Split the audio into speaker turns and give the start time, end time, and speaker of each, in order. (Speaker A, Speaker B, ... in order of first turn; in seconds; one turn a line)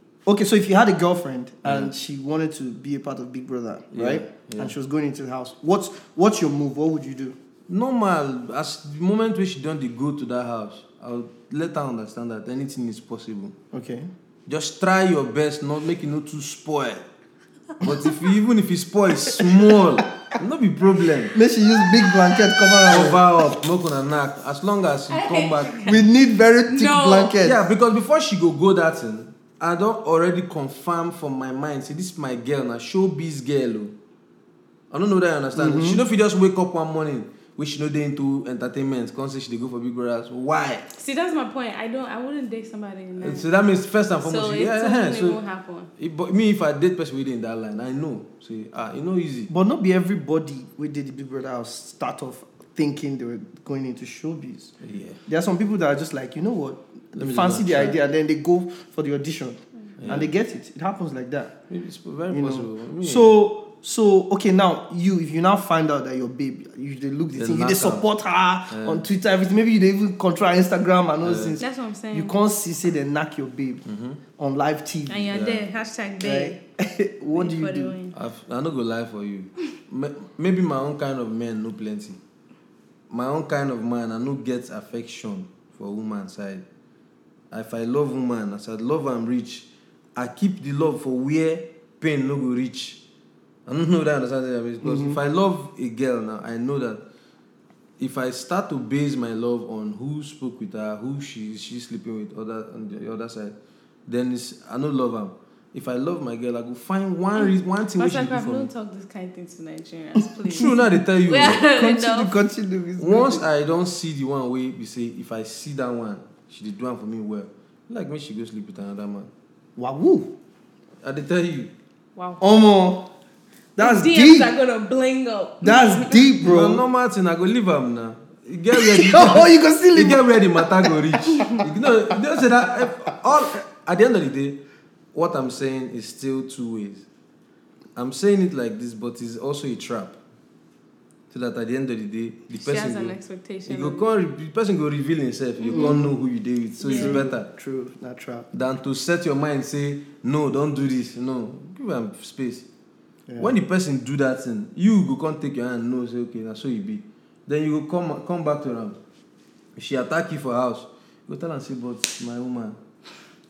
Speaker A: 0.2-7.4
Speaker B: 1.6-1.9
Speaker B: 3.9-4.7
Speaker B: 7.7-13.6
Speaker A: 13.7-14.1
Speaker B: 14.5-17.1
Speaker B: 17.8-21.4
Speaker A: 19.3-19.7
Speaker A: 21.3-23.2
Speaker B: 22.9-25.9
Speaker C: 25.1-26.1
Speaker A: 25.9-27.6
Speaker C: 26.7-27.4
Speaker B: 27.4-33.9
Speaker B: 34.9-40.9
Speaker A: 35.6-36.0
Speaker C: 40.9-43.5
Speaker B: 43.2-45.4
Speaker C: 44.2-45.9
Speaker B: 46.0-49.5
Speaker A: 49.5-54.7
Speaker B: 54.8-55.2
Speaker A: 55.2-61.6
Speaker B: 57.2-58.0
Speaker B: 60.0-60.3
Speaker B: 61.7-63.3
Speaker A: 62.3-73.8
Speaker B: 67.3-68.1
Speaker B: 68.7-69.0
Speaker B: 71.2-71.6
Speaker C: 71.6-72.3
Speaker B: 73.8-74.2
Speaker A: 74.4-75.3
Speaker C: 75.1-76.6
Speaker B: 75.3-75.7
Speaker A: 76.2-78.0
Speaker C: 77.3-78.2
Speaker B: 78.1-82.2
Speaker B: 83.1-86.6
Speaker B: 87.5-93.0
Speaker B: 93.7-97.0
Speaker A: 94.8-95.2
Speaker B: 98.0-108.7
Speaker C: 107.4-112.3
Speaker B: 110.5-111.6
Speaker A: 111.6-113.4
Speaker B: 113.0-119.3
Speaker A: 119.8-120.3
Speaker B: 121.0-121.7
Speaker C: 122.2-122.4
Speaker A: 122.4-123.1
Speaker A: 123.8-124.5
Speaker C: 123.8-126.2
Speaker A: 125.6-126.8
Speaker B: 126.4-134.6
Speaker A: 128.7-131.7
Speaker B: 135.1-137.1
Speaker B: 138.0-140.2
Speaker B: 141.3-143.1
Speaker C: 142.6-144.0
Speaker B: 143.7-147.5
Speaker C: 145.6-146.0
Speaker A: 145.7-146.1
Speaker C: 146.8-147.3
Speaker A: 146.9-148.5
Speaker B: 148.5-152.7
Speaker A: 153.3-153.5
Speaker B: 153.4-159.0
Speaker B: 159.8-162.8